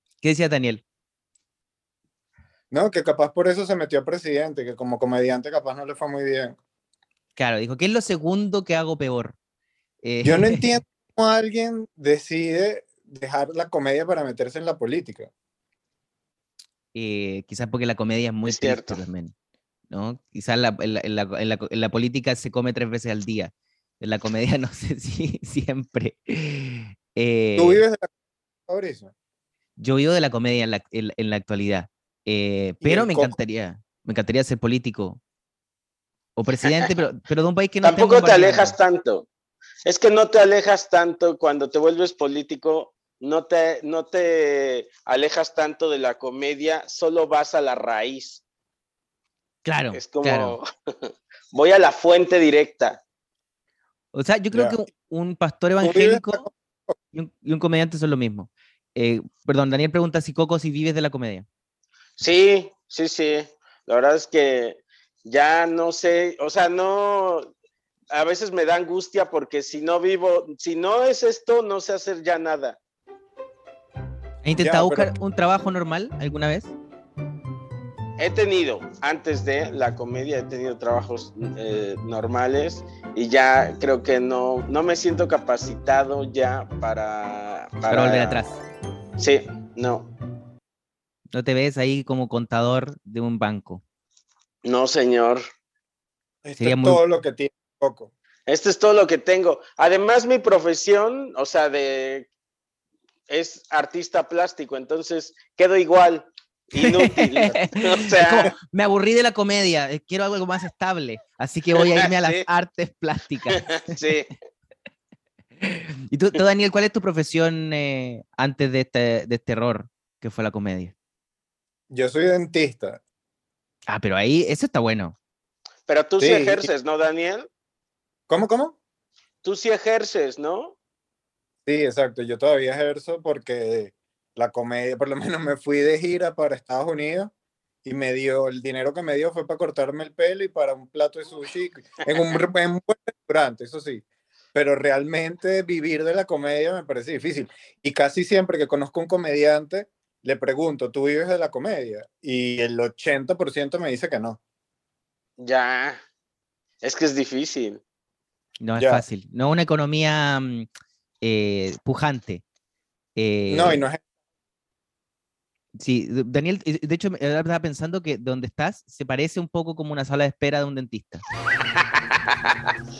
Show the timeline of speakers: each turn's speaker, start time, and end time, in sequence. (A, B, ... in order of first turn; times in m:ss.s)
0:00.2-0:00.8 A
0:02.7-0:06.6 B
0:07.4-0:09.4 A
0:10.0-0:10.8 A
0:10.2-0:15.3 B
0:16.9-0:19.3 A
0:18.5-0:19.0 C
0:19.9-0:27.8 A
0:27.6-0:28.1 B
0:28.7-0:29.1 B
0:29.8-0:35.2 A
0:32.8-0:33.4 B
0:36.4-0:38.8 A
0:37.8-0:39.2 C
0:39.8-0:48.4 C
0:49.6-0:50.6 A
0:49.9-0:53.0 C
0:54.1-0:56.5 A
0:55.8-0:56.9 B
0:57.1-1:01.4 A
1:02.2-1:07.5 C
1:08.1-1:12.8 C
1:14.4-1:16.7 A
1:14.6-1:15.1 B
1:18.2-1:28.4 C
1:27.9-1:28.6 A
1:29.2-1:30.1 C
1:31.3-1:33.8 A
1:34.6-1:35.4 C
1:36.4-1:38.1 B
1:36.6-1:37.0 A
1:38.5-1:42.3 C
1:43.3-1:48.5 C
1:46.8-1:54.0 A
1:51.8-1:52.4 C
1:53.5-1:54.3 C
1:55.6-2:00.9 A
2:01.9-2:03.0 B
2:03.9-2:05.2 A
2:05.9-2:07.5 C
2:06.2-2:06.7 B
2:08.3-2:08.8 B
2:09.4-2:10.8 C
2:11.6-2:17.3 B
2:17.8-2:24.0 B
2:24.5-2:34.4 B
2:35.4-2:36.0 C
2:36.8-2:37.8 C
2:38.6-2:40.7 A
2:38.8-2:39.0 B
2:41.2-2:42.4 A
2:43.2-2:43.8 A
2:43.5-2:44.0 B
2:45.8-2:51.2 A
2:51.8-2:52.6 C